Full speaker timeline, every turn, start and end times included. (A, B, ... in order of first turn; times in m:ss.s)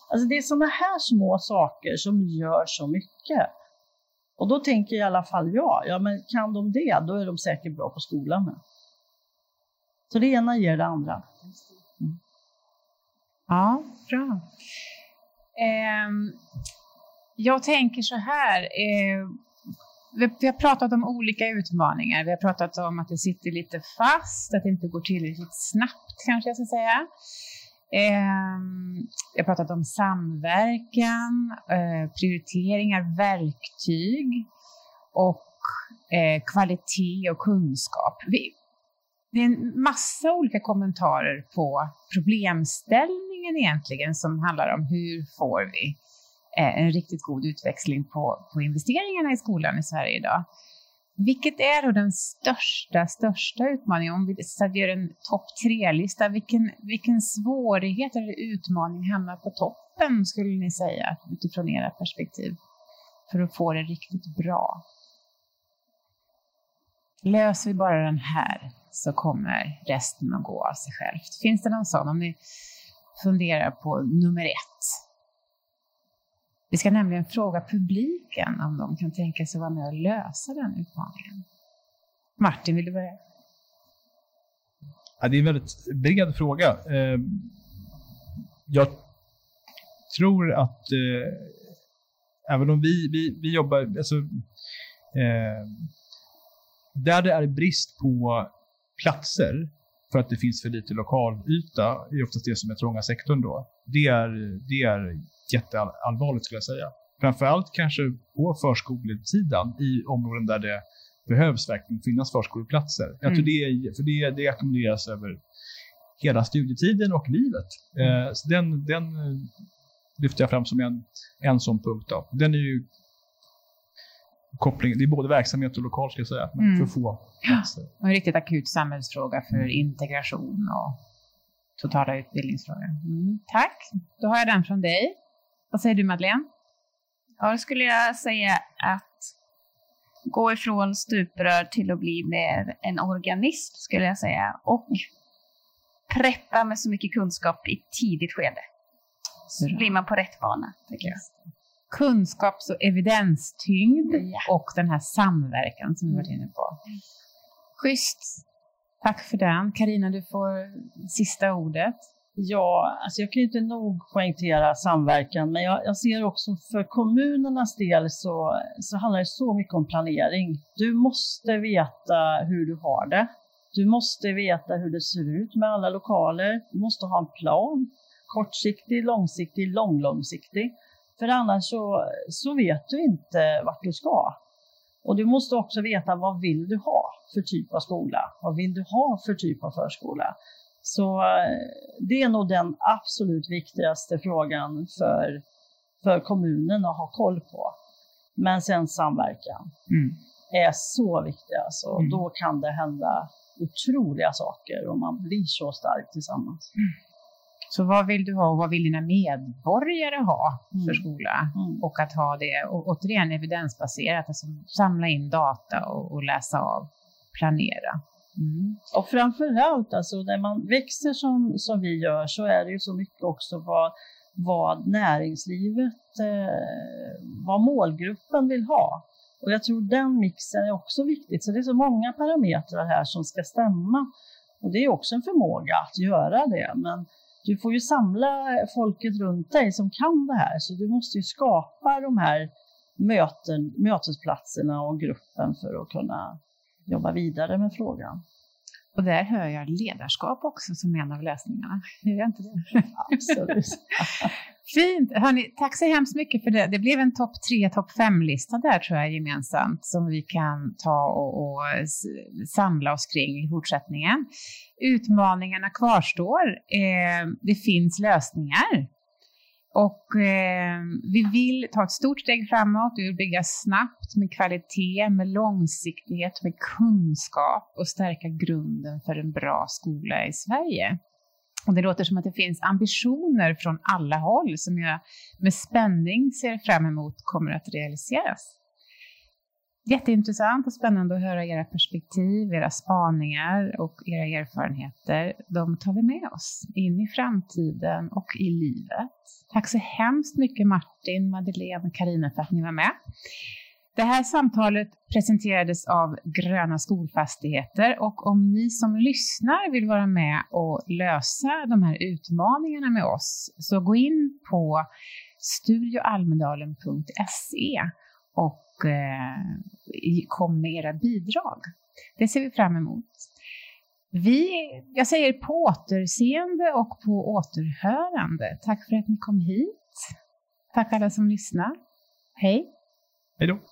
0:00.1-0:03.5 A
0:04.4-0:08.6 A
0:10.1-0:11.4 A
0:13.5-0:14.5 B
0:15.6-0:16.4 B
0:17.4-0:19.4 B
0:20.1-0:27.1 B
0:27.9-0:34.5 B
0:35.1-0:38.5 B
0:39.3-0:46.0 B
0:46.6-0:50.4 B
0:51.2-1:02.6 B
1:03.3-1:04.8 B
1:07.2-1:12.4 B
1:13.2-1:15.0 B
1:16.7-1:21.4 B
1:22.4-1:23.2 B
1:25.2-1:27.5 C
1:28.7-1:29.0 C
1:30.1-1:31.6 C
1:32.5-1:34.4 C
1:35.1-1:35.9 C
1:37.0-1:55.4 C
1:56.2-1:59.5 C
2:00.2-2:02.9 C
2:04.6-2:07.9 C
2:06.6-2:06.9 B
2:07.4-2:11.0 B
2:11.8-2:15.2 B
2:15.7-2:16.5 B
2:17.4-2:19.3 D
2:20.3-2:25.1 D
2:26.1-2:28.6 D
2:29.6-2:31.2 D
2:29.6-2:29.8 B
2:31.0-2:31.3 B
2:31.9-2:36.8 B
2:34.1-2:34.5 D
2:37.8-2:38.4 B
2:39.0-2:42.0 B
2:42.4-3:04.4 A
3:05.0-3:15.4 A
3:16.0-3:17.7 A
3:18.4-3:19.7 A
3:19.9-3:20.2 B
3:20.5-3:26.7 A
3:27.7-3:38.8 B
3:30.8-3:31.0 A
3:38.9-4:08.2 A
4:08.9-4:13.3 B
4:13.0-4:14.3 A
4:14.6-4:24.3 B
4:24.8-4:28.9 B
4:29.7-4:41.0 B
4:41.7-4:48.5 B
4:49.8-5:03.0 B
5:03.9-5:14.9 B
5:15.4-5:23.3 B
5:24.1-5:30.1 B
5:30.7-5:31.7 B
5:32.4-5:32.7 B